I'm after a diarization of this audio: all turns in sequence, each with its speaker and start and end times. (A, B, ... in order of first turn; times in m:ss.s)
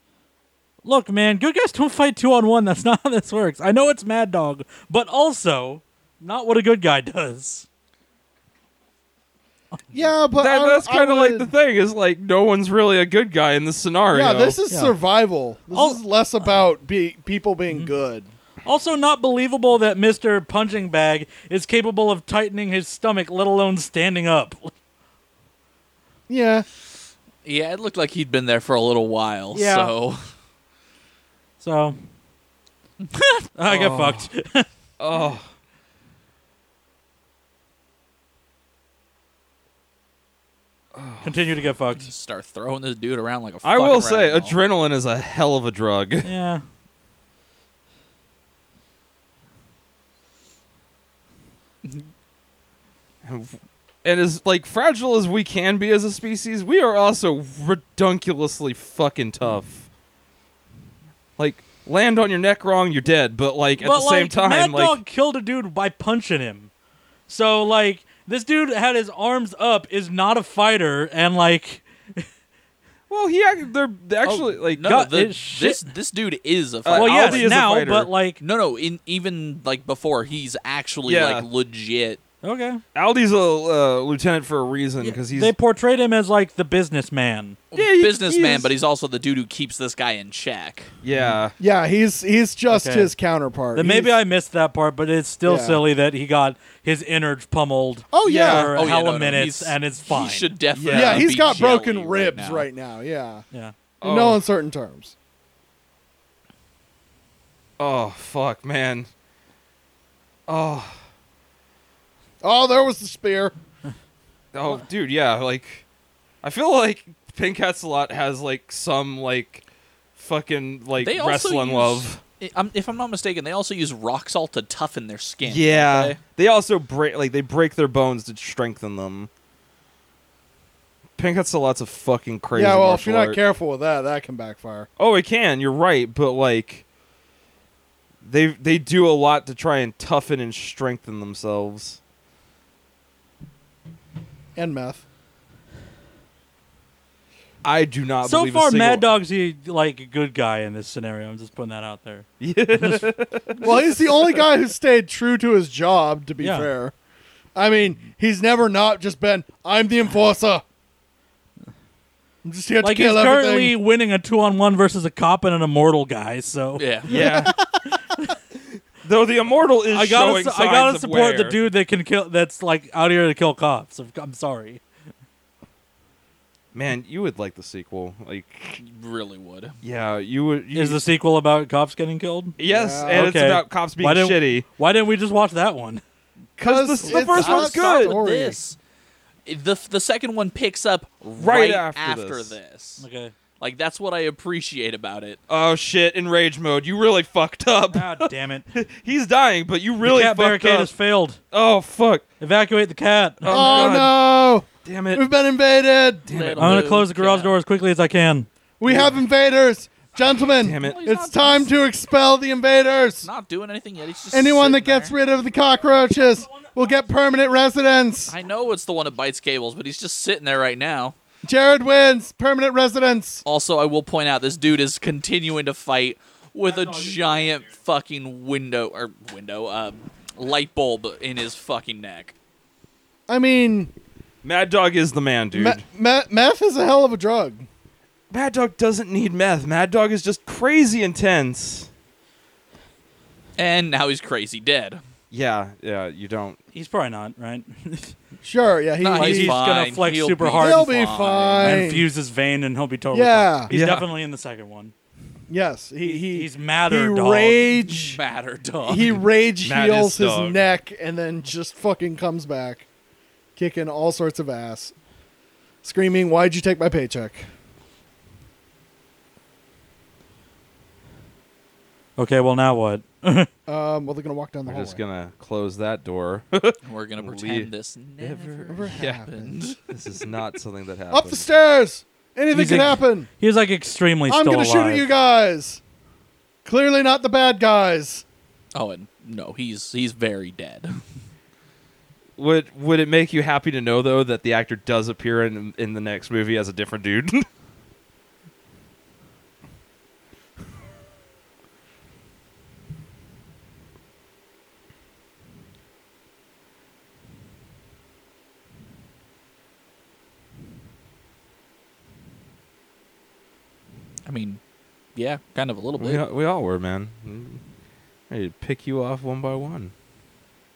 0:00.8-0:07.7 A
0:09.9-0:11.5 B
0:10.4-0:14.6 C
0:14.1-0:18.3 B
0:15.7-0:16.0 A
0:18.6-0:24.7 A
0:26.3-0:26.7 B
0:27.4-0:30.2 D
0:29.5-0:29.9 A
0:31.6-0:32.0 A
0:33.1-0:33.4 D
0:33.6-0:34.7 A
0:33.7-0:34.3 C
0:35.0-0:35.5 C
0:40.9-0:41.4 C
0:41.2-0:42.1 A
0:42.0-0:44.6 D
0:43.6-0:46.3 C
0:46.2-0:46.6 A
0:53.2-0:59.9 C
1:01.4-1:05.0 C
1:03.8-1:06.7 A
1:07.3-1:12.2 A
1:13.1-1:14.9 C
1:14.2-1:17.6 D
1:14.8-1:15.9 A
1:16.8-1:18.1 C
1:16.9-1:18.4 A
1:18.4-1:22.2 D
1:21.1-1:21.5 C
1:22.4-1:22.8 A
1:23.0-1:25.5 C
1:25.0-1:27.6 A
1:27.7-1:30.9 D
1:27.8-1:28.7 C
1:31.0-1:31.6 C
1:31.6-1:34.1 B
1:32.7-1:33.1 A
1:33.8-1:40.5 A
1:35.4-1:35.8 B
1:38.1-1:38.7 B
1:38.2-1:38.7 C
1:38.5-1:42.7 D
1:40.7-1:41.4 C
1:40.9-1:43.4 B
1:44.0-1:44.4 C
1:44.0-1:45.2 B
1:47.8-1:49.1 C
1:50.5-1:51.0 C
1:52.4-1:53.5 B
1:54.5-1:55.8 C
1:56.4-1:59.6 C
2:00.2-2:02.2 C
2:01.0-2:06.2 D
2:05.4-2:09.3 C
2:11.2-2:13.4 C
2:12.5-2:14.9 B
2:15.0-2:16.8 C
2:18.2-2:22.0 C
2:24.6-2:25.0 B
2:27.6-2:29.1 C
2:28.2-2:32.3 A
2:32.4-2:34.1 C
2:32.8-2:33.1 A
2:33.6-2:36.9 B
2:36.4-2:36.7 A
2:37.6-2:40.6 B
2:42.4-2:43.8 B
2:42.8-2:48.3 A
2:46.8-2:47.2 D
2:47.1-2:47.6 C
2:49.0-2:51.6 C
2:49.9-2:54.8 A
2:56.7-2:58.8 C
2:58.8-2:59.8 D
2:59.8-3:01.0 C
3:00.7-3:02.6 A
3:02.6-3:04.6 C
3:02.6-3:03.3 B
3:03.1-3:06.0 A
3:06.6-3:08.6 B
3:06.6-3:08.2 C
3:07.0-3:08.8 D
3:09.5-3:13.0 D
3:11.4-3:12.6 C
3:13.0-3:13.3 A
3:13.6-3:15.4 D
3:15.5-3:18.1 C
3:17.9-3:18.7 A
3:18.7-3:20.9 C
3:20.0-3:21.4 A
3:21.5-3:22.3 C
3:22.4-3:24.0 A
3:23.4-3:25.2 C
3:23.5-3:26.3 B
3:26.3-3:26.9 C
3:26.3-3:27.5 D
3:26.6-3:28.5 A
3:28.8-3:33.3 B
3:30.6-3:31.1 C
3:30.8-3:31.7 D
3:33.2-3:35.2 D
3:34.3-3:38.4 B
3:38.3-3:41.2 D
3:41.4-3:43.4 B
3:43.4-3:52.4 D
3:53.3-3:53.9 B
3:54.4-3:55.8 C
3:55.5-3:57.7 B
3:58.3-4:01.9 C
4:03.6-4:05.0 D
4:05.3-4:06.6 C
4:06.7-4:08.2 A
4:08.4-4:09.6 B
4:09.0-4:11.8 D
4:09.2-4:10.9 A
4:10.6-4:12.1 B
4:11.6-4:14.9 A
4:13.1-4:13.7 B
4:13.7-4:14.1 C
4:15.5-4:18.2 B
4:16.0-4:17.7 A
4:17.9-4:19.2 D
4:18.8-4:22.9 B
4:19.6-4:20.6 C
4:23.6-4:24.9 B
4:25.8-4:27.5 B
4:32.2-4:33.5 A
4:33.7-4:35.0 B
4:34.7-4:39.2 C
4:36.8-4:39.8 D
4:38.7-4:39.6 B
4:39.9-4:41.5 C
4:41.1-4:43.3 B
4:42.5-4:45.1 A
4:44.3-4:45.8 B
4:46.6-4:48.2 B
4:48.7-4:51.0 D
4:52.4-4:57.4 C
5:14.3-5:14.6 D
5:15.2-5:16.2 D
5:16.0-5:17.6 C
5:18.3-5:19.9 C